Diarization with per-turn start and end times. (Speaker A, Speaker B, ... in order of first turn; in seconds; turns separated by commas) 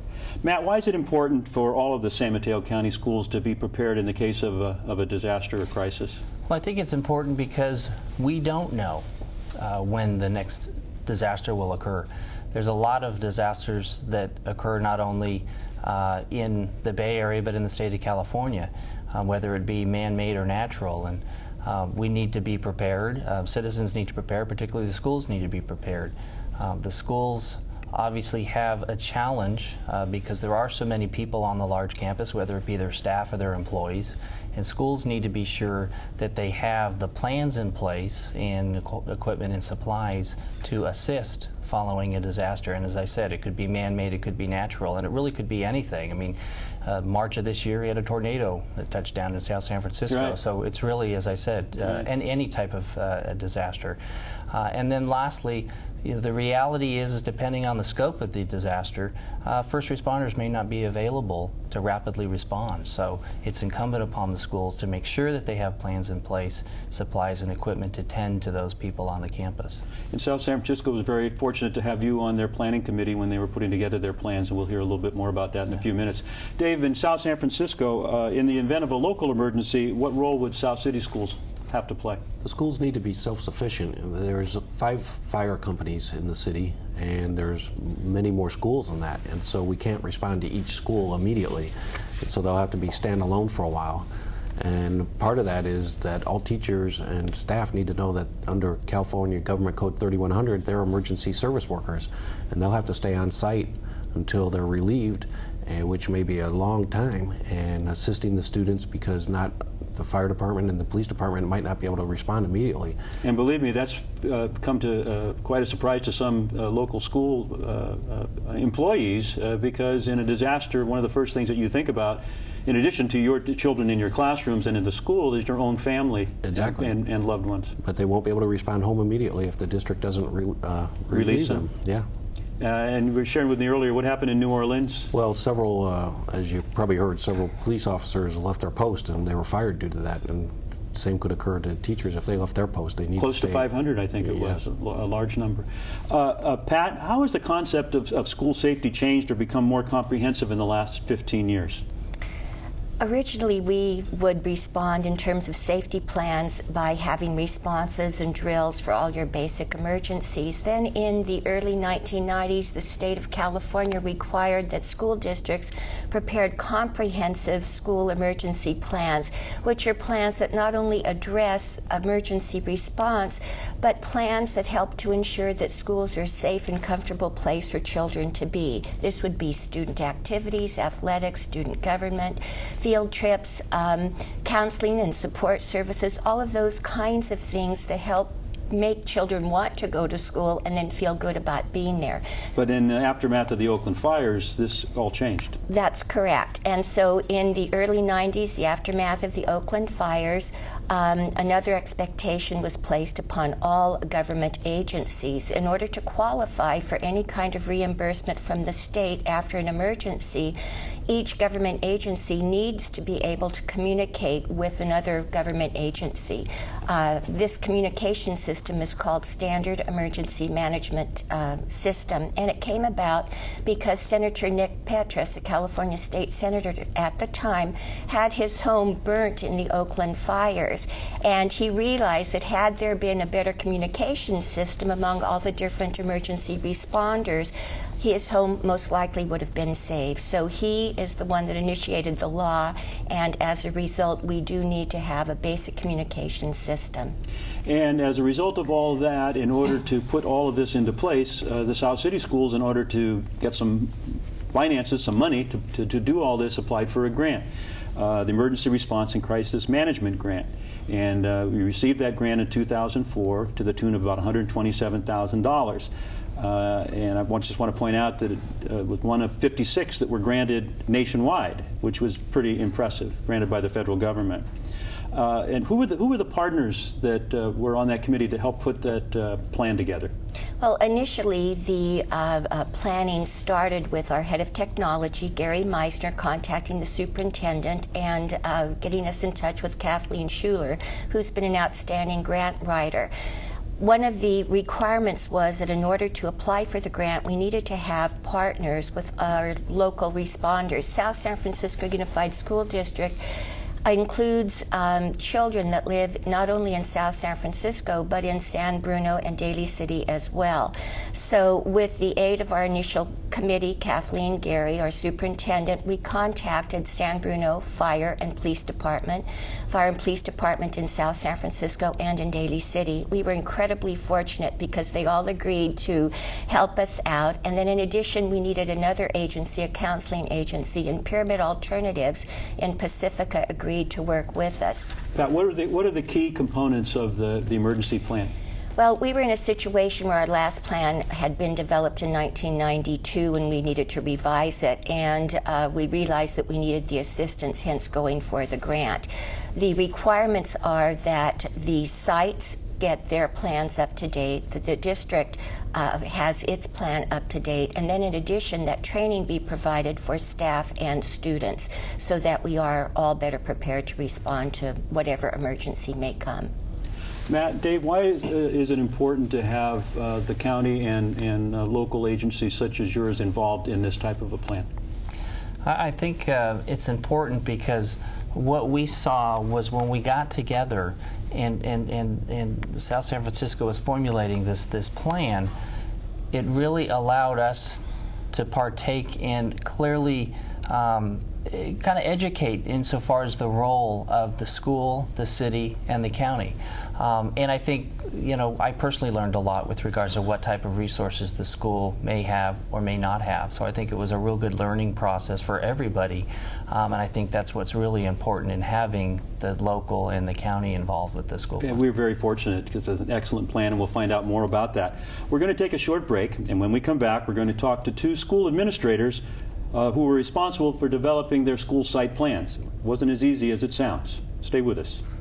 Speaker A: 0.4-6.2, Speaker B: 6.5-54.0, Speaker A: 50.1-50.4, Speaker A: 51.8-52.1, Speaker B: 54.5-69.8, Speaker A: 70.1-82.3, Speaker C: 82.4-94.1, Speaker C: 94.6-113.0, Speaker A: 113.2-127.7, Speaker C: 126.4-126.9, Speaker C: 127.8-132.1, Speaker A: 131.1-131.7, Speaker A: 132.6-135.1, Speaker C: 135.1-144.6, Speaker A: 143.2-151.8, Speaker D: 153.0-192.2, Speaker A: 192.5-195.6, Speaker D: 195.7-210.6, Speaker D: 211.1-247.1, Speaker A: 247.7-274.5, Speaker A: 275.1-280.1, Speaker D: 280.6-293.1, Speaker D: 293.8-303.2, Speaker D: 303.8-335.0, Speaker A: 335.1-338.3, Speaker D: 338.8-366.5, Speaker A: 367.3-374.7, Speaker B: 375.6-385.5, Speaker B: 386.3-411.8, Speaker A: 411.6-425.0